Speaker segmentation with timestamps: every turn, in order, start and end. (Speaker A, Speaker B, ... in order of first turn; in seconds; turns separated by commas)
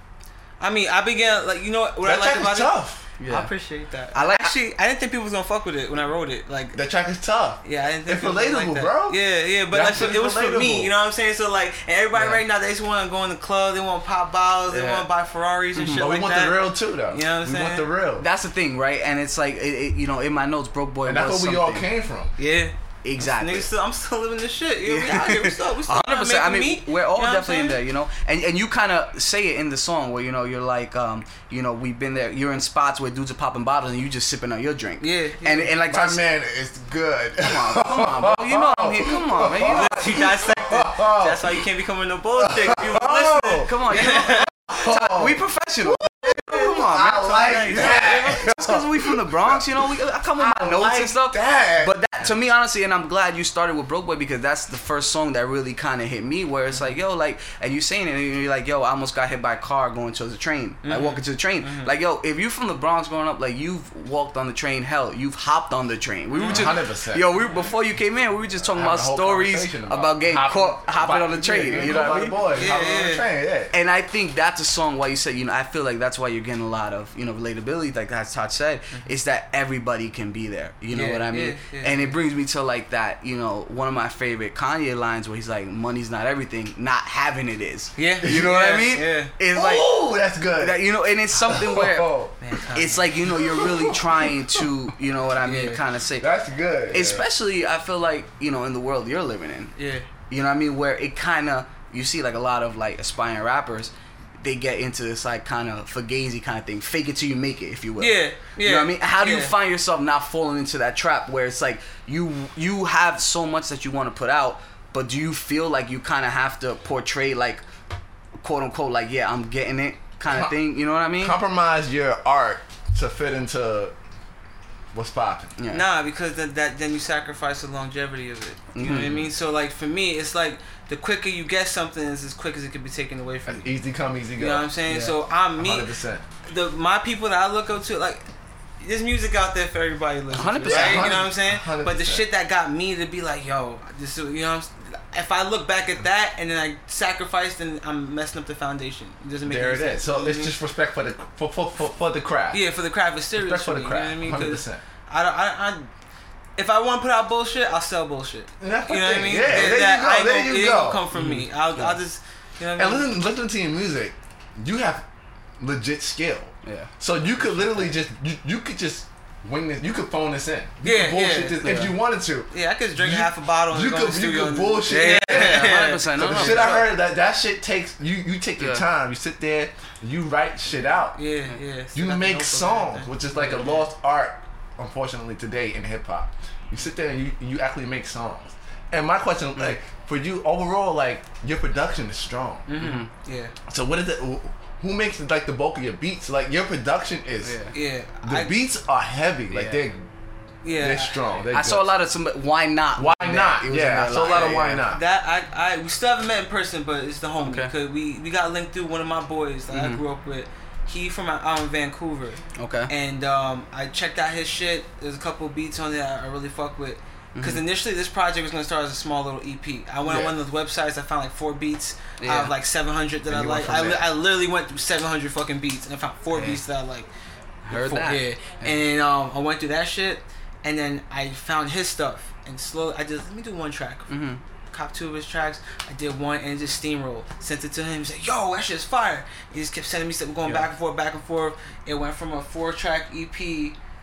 Speaker A: 0.6-6.8, Speaker B: 2.0-3.1, Speaker C: 3.2-3.5, Speaker C: 4.1-4.5, Speaker B: 6.7-10.9, Speaker A: 7.6-17.9, Speaker C: 12.1-12.4, Speaker C: 14.7-15.1, Speaker C: 15.8-16.1, Speaker B: 15.9-18.3, Speaker C: 18.2-21.9, Speaker B: 21.1-22.4, Speaker A: 22.4-27.8, Speaker C: 23.0-23.7, Speaker C: 24.9-36.2, Speaker A: 35.0-35.7, Speaker B: 35.8-41.6, Speaker C: 37.4-40.1, Speaker A: 39.6-44.5, Speaker B: 42.4-43.7, Speaker C: 43.6-72.7, Speaker B: 44.2-52.0, Speaker A: 47.2-48.4, Speaker A: 60.8-61.9, Speaker A: 66.3-66.8, Speaker B: 66.4-67.3, Speaker B: 68.7-73.7, Speaker A: 72.5-73.3, Speaker C: 73.7-90.0, Speaker A: 80.9-82.2, Speaker A: 88.0-89.3, Speaker B: 88.2-88.9, Speaker B: 89.5-92.6, Speaker C: 90.6-92.2, Speaker A: 92.4-93.2, Speaker C: 92.7-96.3, Speaker B: 93.3-94.7, Speaker A: 95.4-95.8, Speaker B: 96.2-97.2, Speaker C: 96.9-99.8, Speaker A: 99.8-100.1, Speaker C: 100.3-117.6, Speaker A: 108.0-109.5, Speaker C: 118.4-121.4, Speaker B: 120.3-120.6, Speaker B: 121.2-123.9, Speaker B: 124.9-125.6, Speaker C: 125.6-125.9, Speaker A: 125.7-133.7, Speaker C: 128.7-129.3, Speaker B: 133.5-134.8, Speaker A: 134.4-135.9, Speaker C: 134.9-135.2, Speaker B: 135.6-136.2, Speaker A: 136.4-138.3, Speaker A: 138.8-150.6, Speaker C: 140.3-141.1, Speaker B: 140.5-142.3, Speaker B: 149.4-152.6, Speaker A: 152.5-155.9, Speaker B: 153.4-154.8, Speaker A: 156.6-163.1, Speaker B: 158.6-161.1, Speaker C: 161.1-162.0, Speaker B: 162.8-165.0, Speaker B: 165.6-181.2, Speaker C: 166.6-166.9, Speaker A: 170.8-171.8, Speaker C: 171.6-171.9, Speaker A: 172.5-176.9, Speaker C: 174.9-176.9, Speaker C: 178.6-178.8, Speaker A: 181.2-183.9, Speaker B: 181.9-192.7, Speaker A: 192.7-193.5, Speaker C: 192.8-193.1, Speaker B: 193.7-197.6, Speaker C: 197.4-197.7, Speaker A: 197.7-198.6, Speaker B: 198.2-200.1, Speaker C: 199.5-199.8, Speaker A: 200.6-201.4, Speaker B: 200.8-201.9, Speaker C: 201.5-204.8, Speaker B: 203.0-205.0, Speaker A: 204.2-227.1, Speaker C: 207.4-207.7, Speaker C: 209.7-210.0, Speaker C: 212.6-212.9, Speaker C: 217.3-217.7, Speaker B: 220.1-220.3, Speaker C: 222.2-222.5, Speaker B: 223.3-224.1, Speaker C: 226.3-226.6, Speaker C: 227.7-228.8, Speaker A: 227.7-234.1, Speaker C: 234.1-234.4, Speaker A: 234.7-243.8, Speaker C: 240.4-240.7